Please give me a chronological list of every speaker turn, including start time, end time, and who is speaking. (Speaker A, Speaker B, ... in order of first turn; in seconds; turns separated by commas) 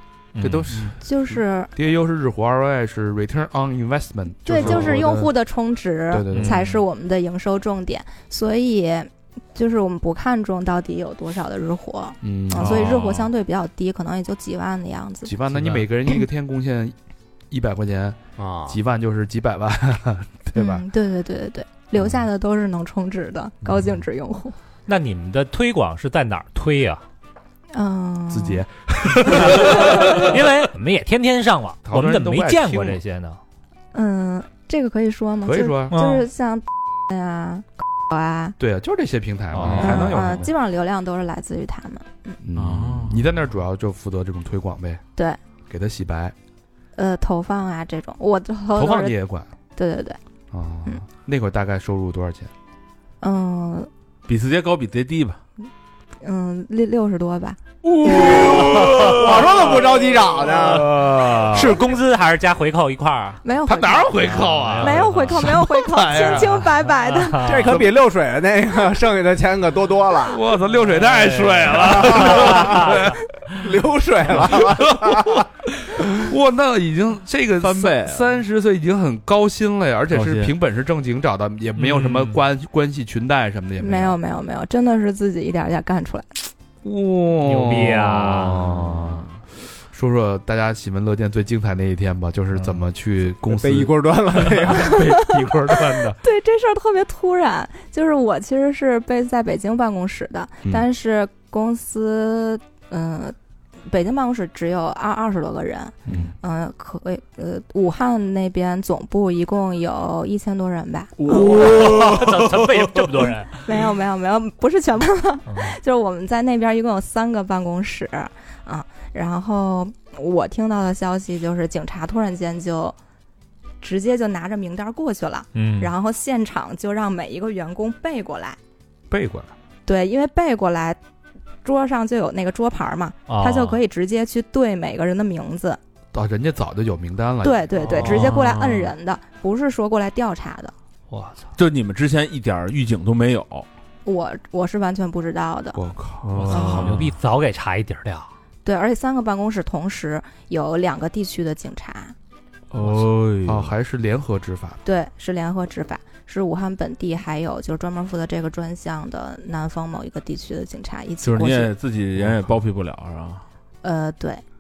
Speaker A: 0.3-0.8, Speaker B: 0.4-0.9, Speaker C: 0.9-1.7, Speaker B: 1.8-5.3, Speaker C: 4.5-15.4, Speaker B: 6.1-6.6, Speaker A: 6.3-6.8, Speaker B: 12.2-12.9, Speaker D: 12.6-13.2, Speaker B: 15.2-16.9, Speaker B: 17.5-20.9, Speaker E: 18.4-18.8, Speaker C: 20.6-24.6, Speaker A: 24.9-27.0, Speaker C: 27.7-28.6, Speaker B: 28.3-30.4, Speaker A: 29.4-33.4, Speaker C: 29.4-30.2, Speaker B: 31.9-33.0, Speaker C: 33.9-38.6, Speaker B: 35.5-36.0, Speaker A: 35.9-36.3, Speaker B: 38.6-40.5, Speaker A: 39.5-40.2, Speaker C: 39.7-42.4, Speaker B: 42.4-45.0, Speaker D: 42.6-43.3, Speaker B: 45.7-46.4, Speaker C: 47.0-49.2, Speaker B: 48.7-49.5, Speaker C: 49.8-50.2, Speaker B: 50.5-52.5, Speaker C: 53.2-53.9, Speaker D: 54.3-55.4, Speaker C: 56.2-57.6, Speaker D: 57.9-59.2, Speaker E: 58.0-61.4, Speaker A: 61.1-63.4, Speaker B: 61.2-61.8, Speaker C: 63.4-67.6, Speaker B: 63.7-66.5, Speaker A: 64.2-67.8, Speaker E: 67.4-70.4, Speaker B: 70.2-73.2, Speaker A: 71.0-73.1, Speaker E: 71.8-75.5, Speaker B: 74.3-84.2, Speaker D: 77.6-78.2, Speaker D: 80.1-80.5, Speaker A: 81.8-82.4, Speaker C: 83.8-86.5, Speaker B: 86.8-89.3, Speaker A: 87.4-88.6, Speaker D: 88.5-89.3, Speaker B: 89.9-96.2, Speaker E: 93.5-95.0, Speaker C: 94.8-103.4, Speaker C: 103.9-111.8, Speaker A: 111.3-113.6, Speaker C: 113.6-123.0, Speaker A: 115.5-115.8, Speaker C: 123.8-128.6, Speaker A: 125.5-125.9, Speaker B: 129.1-129.5, Speaker C: 129.9-131.0, Speaker C: 131.6-135.8, Speaker A: 133.3-133.8, Speaker B: 136.1-137.6, Speaker C: 137.4-140.7, Speaker A: 137.8-138.4, Speaker D: 138.1-138.9, Speaker A: 141.1-141.5, Speaker D: 141.6-143.7, Speaker C: 144.1-145.8, Speaker B: 145.8-146.4, Speaker D: 146.2-147.1, Speaker A: 146.4-148.3, Speaker C: 146.5-147.0, Speaker C: 148.6-152.1, Speaker D: 152.7-153.7, Speaker B: 153.4-154.8, Speaker C: 154.8-161.7, Speaker D: 161.2-163.4, Speaker C: 163.8-164.4